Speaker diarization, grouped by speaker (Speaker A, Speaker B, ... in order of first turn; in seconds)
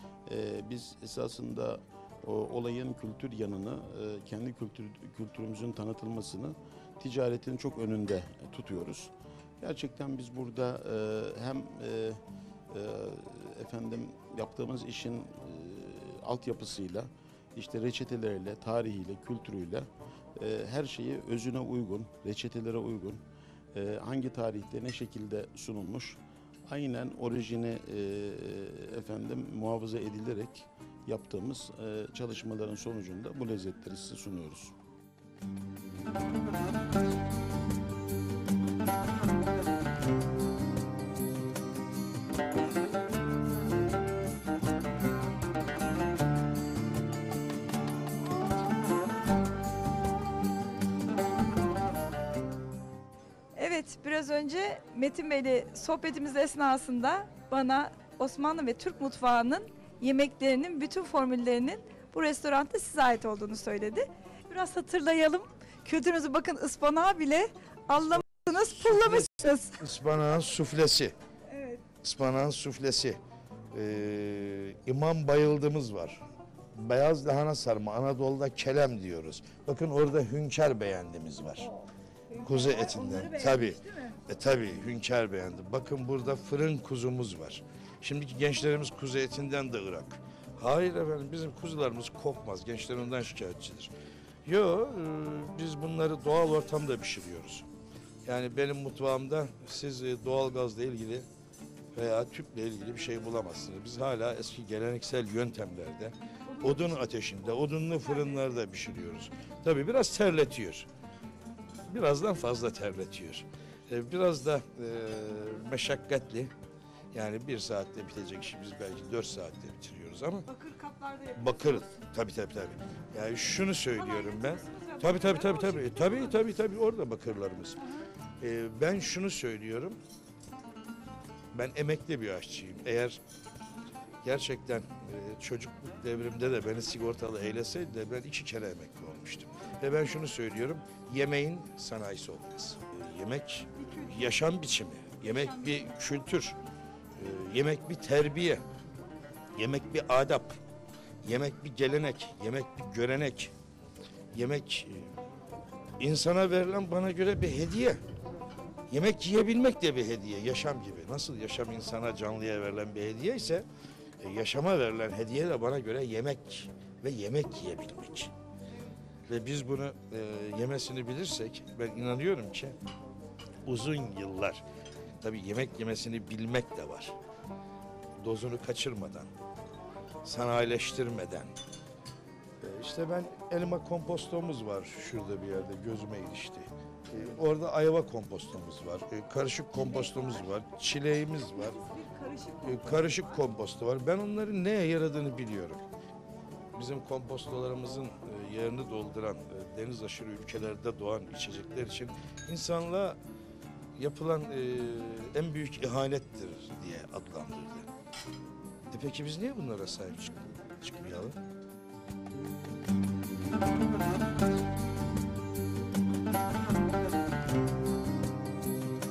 Speaker A: 0.3-12.2, 12.7-19.9, 20.4-23.2, 23.7-26.2, 26.7-34.7
Speaker B: 53.5-69.8, 71.5-71.8, 81.6-84.2, 120.5-121.9, 124.0-126.4, 191.7-193.2
Speaker C: 68.8-71.1, 72.0-73.2, 73.7-76.2, 76.8-81.7, 82.4-93.9, 94.5-97.7, 98.2-101.3, 101.9-110.9, 111.9-116.5, 117.1-120.5, 121.3-127.8, 128.4-130.0, 131.5-133.2, 134.2-146.6, 147.2-148.6, 149.5-150.6, 151.2-153.5, 154.3-155.1, 156.0-158.0, 158.9-163.7, 164.2-168.3, 169.3-172.8, 173.6-174.6, 175.2-177.1, 178.2-179.3, 180.2-181.5, 182.6-191.8, 192.6-195.8, 196.7-203.2, 204.0-207.9, 208.9-211.3